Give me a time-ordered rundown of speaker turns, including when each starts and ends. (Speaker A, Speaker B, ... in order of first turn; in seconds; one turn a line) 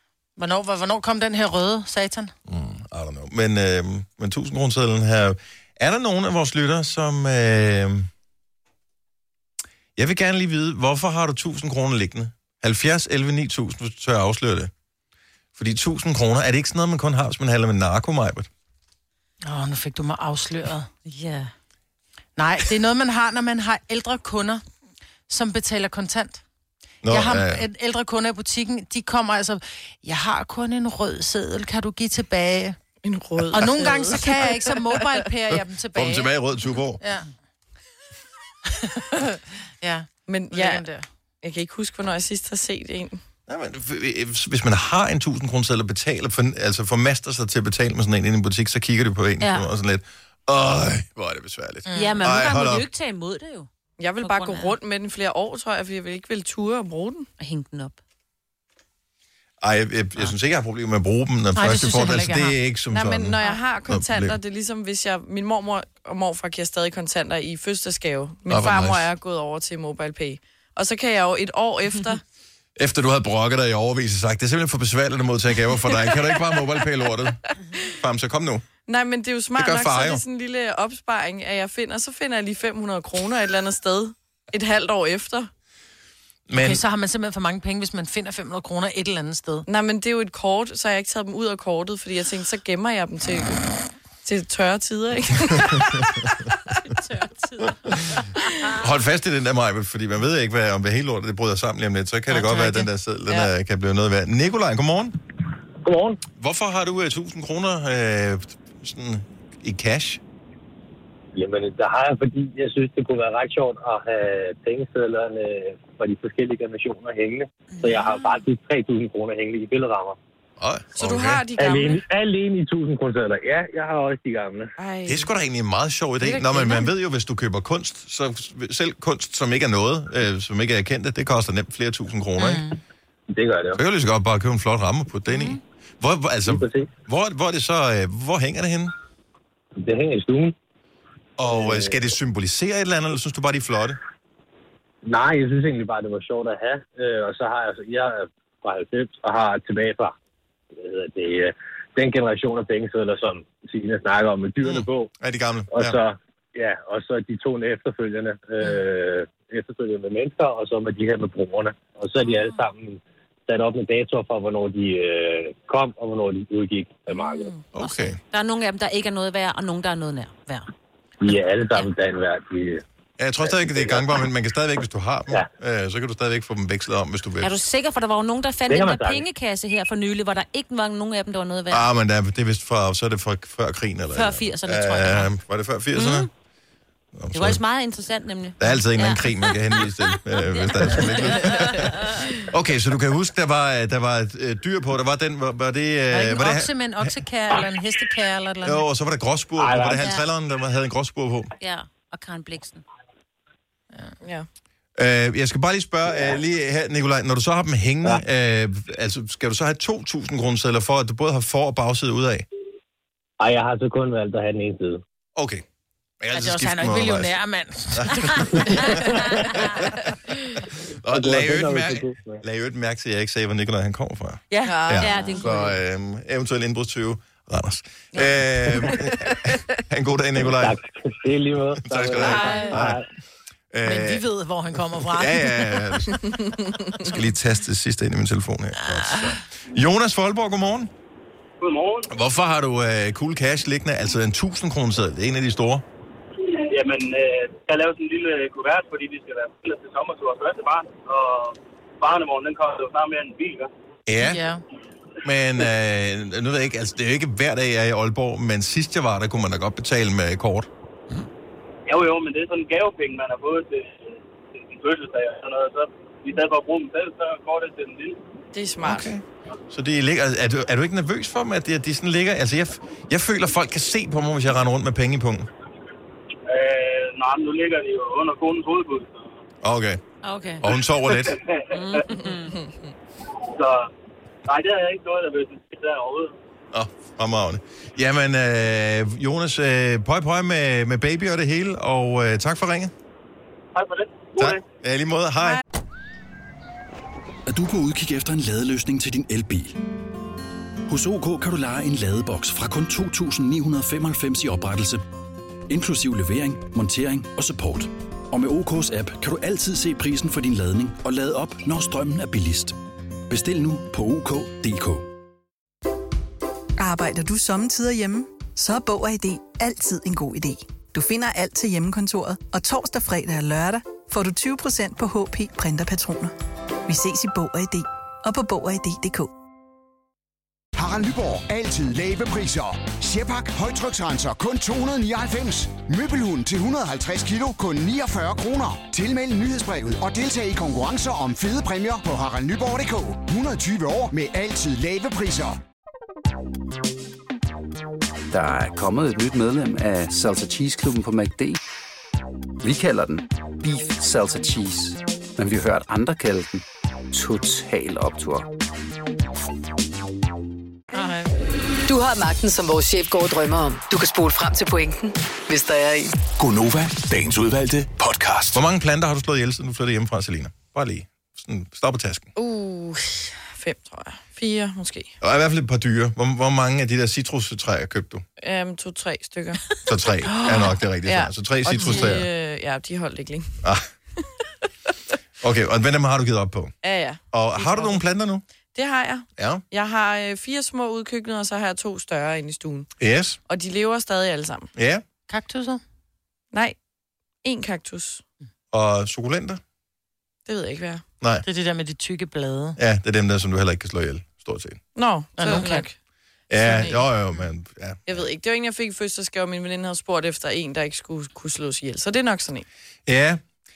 Speaker A: 0.4-2.3
Speaker B: 2.5-8.1
Speaker B: 10.0-14.7
Speaker B: 15.6-18.5
Speaker A: 19.4-20.9
Speaker C: 21.1-21.5
Speaker A: 22.4-24.6
Speaker A: 25.3-26.4
Speaker B: 27.0-27.6
Speaker A: 27.1-32.8
Speaker D: 33.0-35.1
Speaker A: 33.5-36.3
Speaker B: 33.6-34.0
Speaker B: 35.5-37.0
Speaker A: 37.0-37.3
Speaker A: 38.8-39.2
Speaker A: 39.8-41.0
Speaker D: 40.3-40.9
Speaker D: 41.4-43.2
Speaker B: 43.5-52.9
Speaker C: 49.4-49.7
Speaker A: 51.9-52.2
Speaker C: 51.9-54.8
Speaker D: 54.0-57.3
Speaker C: 57.4-58.0
Speaker B: 59.6-64.4
Speaker A: 61.6-62.6
Speaker D: 62.9-72.2
Speaker B: 68.5-69.1
Speaker B: 72.8-78.6
Speaker D: 76.1-76.7
Speaker D: 78.9-85.5
Speaker B: 79.6-80.2
Speaker B: 86.5-86.8
Speaker A: 86.5-89.7
Speaker D: 89.7-96.5
Speaker C: 96.8-98.7
Speaker B: 98.8-105.2
Speaker C: 102.5-102.8
Speaker E: 105.8-106.2
Speaker B: 106.4-110.2
Speaker E: 111.3-120.2
Speaker B: 120.6-121.4
Speaker D: 121.0-122.0
Speaker E: 121.6-124.7
Speaker D: 124.8-125.3
Speaker B: 125.1-132.7
Speaker D: 126.3-126.7
Speaker A: 132.4-132.8
Speaker E: 133.3-133.8
Speaker B: 133.8-138.9
Speaker C: 135.3-135.6
Speaker E: 136.4-136.9
Speaker E: 139.8-140.6
Speaker B: 141.4-144.0
Speaker E: 141.5-142.0
Speaker E: 145.0-150.2
Speaker E: 150.8-155.1
Speaker B: 154.6-156.0
Speaker E: 155.7-167.5
Speaker C: 167.3-170.7
Speaker B: 167.7-168.2
Speaker E: 171.2-172.8
Speaker B: 173.2-177.6
Speaker E: 173.5-174.1
Speaker C: 177.4-181.9
Speaker E: 178.7-179.2
Speaker B: 181.7-186.3
Speaker C: 184.1-185.3
Speaker C: 185.9-186.3
Speaker B: 187.1-187.6
Speaker C: 187.3-189.8
Speaker B: 188.6-196.7
Speaker C: 190.3-192.2
Speaker A: 196.1-198.8
Speaker B: 198.6-201.5
Speaker E: 199.6-200.1
Speaker C: 201.6-202.8
Speaker D: 204.2-204.5
Speaker B: 205.0-212.5
Speaker E: 213.4-215.0
Speaker B: 215.4-215.6
Speaker B: 216.2-217.3
Speaker A: 216.3-218.9
Speaker B: 217.9-219.9
Speaker B: 221.0-230.8
Speaker E: 221.1-222.4
Speaker C: 224.5-225.8
Speaker D: 224.7-225.5
Speaker D: 228.2-229.5
Speaker E: 230.5-233.0
Speaker B: 231.8-233.0
Speaker C: 232.2-232.8
Speaker D: 232.3-232.7
Speaker B: 233.7-234.2
Speaker A: 233.8-235.9
Speaker B: 235.0-236.3
Speaker B: 237.0-240.9
Speaker F: 241.6-242.1
Speaker B: 242.1-245.8
Speaker F: 246.7-253.7
Speaker B: 254.1-254.4
Speaker A: 254.2-254.6
Speaker B: 255.2-260.7
Speaker F: 261.9-268.2
Speaker D: 268.5-269.1
Speaker B: 268.8-275.5
Speaker F: 276.5-279.2
Speaker B: 279.6-280.0
Speaker C: 280.2-280.7
Speaker B: 280.6-281.4
Speaker F: 281.3-282.0
Speaker C: 281.7-282.6
Speaker F: 283.5-283.9
Speaker F: 284.5-286.3
Speaker B: 286.7-292.9
Speaker F: 293.8-294.6
Speaker B: 294.4-295.6
Speaker G: 297.5-299.8
Speaker G: 300.9-305.0
Speaker G: 305.7-312.8
Speaker G: 313.3-315.1
Speaker H: 316.8-326.3
Speaker H: 326.9-329.3
Speaker I: 330.8-345.6
Speaker J: 348.3-351.6
Speaker J: 352.6-358.5
Speaker A: 360.9-361.2
Speaker K: 361.9-366.1
Speaker G: 366.4-368.6
Speaker B: 368.5-372.3
Speaker D: 372.4-375.1
Speaker B: 375.2-378.2
Speaker D: 378.4-379.8
Speaker B: 379.9-382.3
Speaker D: 380.5-383.6
Speaker B: 383.6-383.9
Speaker B: 385.4-386.7
Speaker D: 386.8-388.0
Speaker B: 387.3-388.4
Speaker D: 388.8-392.9
Speaker B: 389.4-389.6
Speaker B: 393.0-393.4
Speaker D: 393.5-394.7
Speaker B: 394.8-395.0
Speaker A: 395.3-395.8
Speaker D: 396.5-396.8
Speaker D: 397.4-398.2
Speaker B: 398.7-399.6
Speaker D: 400.5-401.0
Speaker A: 401.4-402.8
Speaker B: 402.8-404.8
Speaker D: 404.9-406.0
Speaker A: 405.4-405.9
Speaker B: 406.5-408.2
Speaker D: 406.5-407.1
Speaker D: 408.1-412.7
Speaker B: 413.1-413.4